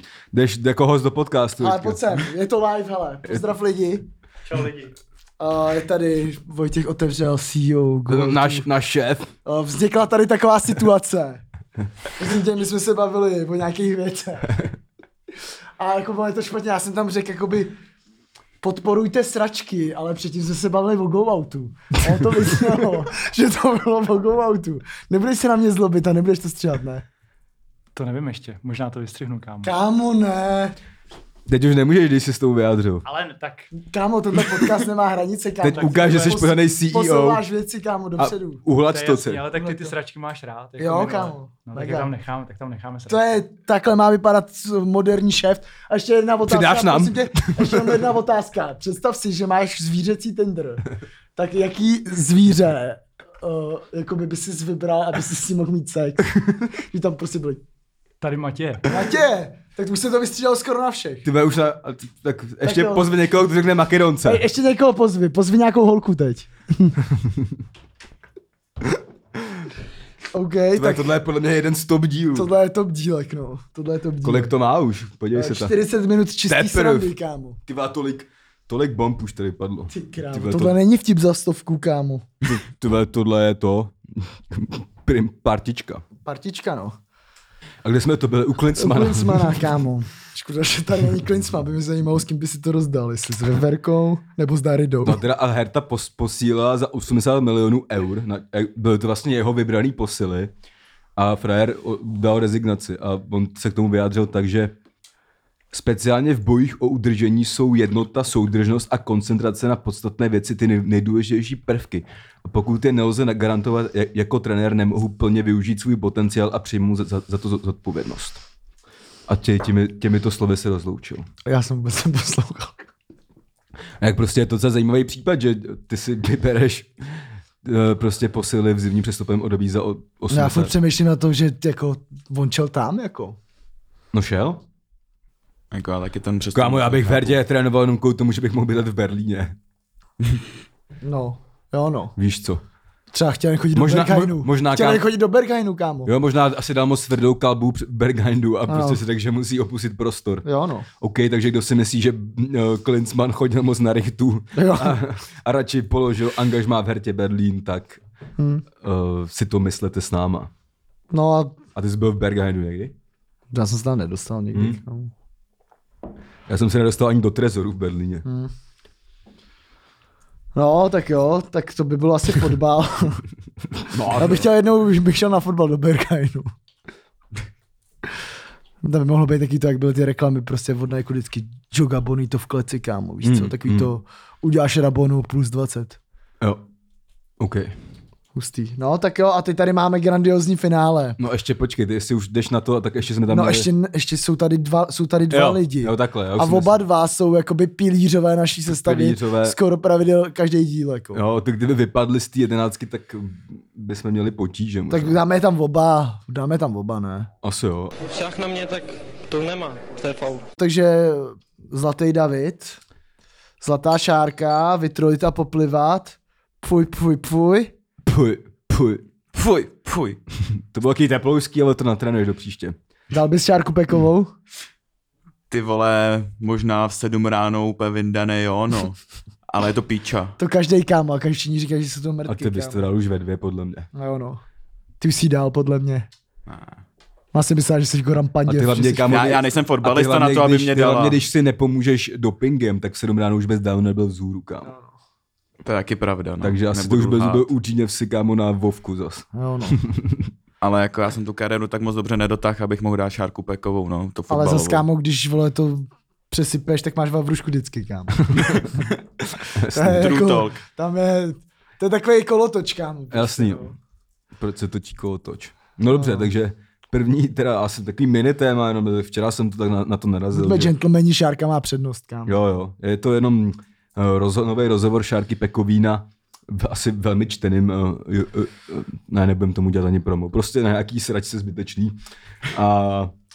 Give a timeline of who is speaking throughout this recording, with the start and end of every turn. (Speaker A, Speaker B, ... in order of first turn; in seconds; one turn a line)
Speaker A: 0.3-2.3
Speaker B: 1.6-4.0
Speaker C: 4.5-4.9
Speaker B: 5.4-8.7
Speaker A: 8.1-9.3
Speaker B: 9.4-11.4
Speaker B: 12.2-14.6
Speaker B: 15.8-17.7
Speaker B: 18.6-27.0
Speaker A: 22.1-22.8
Speaker C: 27.9-29.7
Speaker B: 29.6-30.8
Speaker A: 31.4-33.0
Speaker C: 33.0-33.7
Speaker B: 33.7-38.6
Speaker A: 35.6-37.4
Speaker A: 38.2-39.5
Speaker C: 38.8-43.3
Speaker B: 39.5-39.9
Speaker B: 40.8-42.1
Speaker B: 43.1-57.6
Speaker A: 46.4-48.1
Speaker C: 58.2-58.9
Speaker B: 58.9-61.2
Speaker A: 61.2-64.4
Speaker B: 62.6-63.1
Speaker B: 64.2-67.0
Speaker A: 67.1-67.5
Speaker B: 70.3-71.1
Speaker A: 70.7-72.5
Speaker B: 72.3-74.5
Speaker A: 74.2-75.7
Speaker B: 75.3-77.6
Speaker A: 76.5-77.1
Speaker A: 77.7-80.8
Speaker B: 79.9-82.2
Speaker A: 82.4-86.0
Speaker B: 86.2-87.0
Speaker A: 87.8-89.7
Speaker B: 88.8-95.2
Speaker A: 95.0-100.5
Speaker A: 101.2-104.7
Speaker A: 105.7-118.4
Speaker A: 119.3-121.2
Speaker B: 121.4-122.9
Speaker A: 124.0-126.9
Speaker A: 127.6-130.7
Speaker B: 130.3-133.4
Speaker A: 134.1-134.6
Speaker D: 135.7-137.3
Speaker A: 136.5-139.6
Speaker B: 141.0-142.1
Speaker A: 142.2-142.6
Speaker B: 143.1-146.1
Speaker A: 143.7-145.0
Speaker A: 146.0-150.4
Speaker B: 148.7-149.0
Speaker B: 150.4-150.9
Speaker A: 151.0-158.0
Speaker B: 154.5-155.0
Speaker B: 158.4-158.6
Speaker A: 158.8-160.5
Speaker B: 161.1-161.6
Speaker A: 161.7-162.9
Speaker B: 163.5-165.1
Speaker A: 164.5-164.8
Speaker A: 166.5-168.2
Speaker B: 168.2-168.5
Speaker B: 170.5-173.2
Speaker A: 173.8-174.5
Speaker B: 174.1-176.5
Speaker B: 178.8-186.0
Speaker A: 183.2-183.9
Speaker A: 187.4-187.7
Speaker B: 188.3-191.2
Speaker A: 191.2-193.7
Speaker B: 193.3-201.2
Speaker A: 195.3-196.8
Speaker A: 198.7-199.6
Speaker A: 201.1-205.2
Speaker B: 204.9-207.3
Speaker A: 207.4-207.9
Speaker E: 208.0-210.4
Speaker B: 210.6-212.8
Speaker B: 213.6-217.7
Speaker A: 218.0-219.0
Speaker D: 219.3-220.2
Speaker A: 220.5-222.8
Speaker B: 223.1-224.3
Speaker D: 225.5-230.3
Speaker B: 230.4-232.8
Speaker A: 232.2-233.9
Speaker B: 233.9-234.4
Speaker B: 235.0-236.1
Speaker D: 236.5-236.8
Speaker B: 237.3-239.1
Speaker A: 238.4-244.7
Speaker D: 239.1-241.2
Speaker B: 244.6-244.9
Speaker D: 245.6-247.5
Speaker A: 246.4-250.3
Speaker B: 249.3-249.8
Speaker D: 250.6-254.8
Speaker B: 254.3-258.6
Speaker A: 258.3-258.6
Speaker A: 259.4-260.2
Speaker B: 259.7-263.8
Speaker D: 259.9-260.6
Speaker A: 263.1-263.7
Speaker A: 264.4-270.7
Speaker B: 265.9-266.3
Speaker B: 270.3-272.4
Speaker A: 272.2-282.0
Speaker A: 282.5-283.1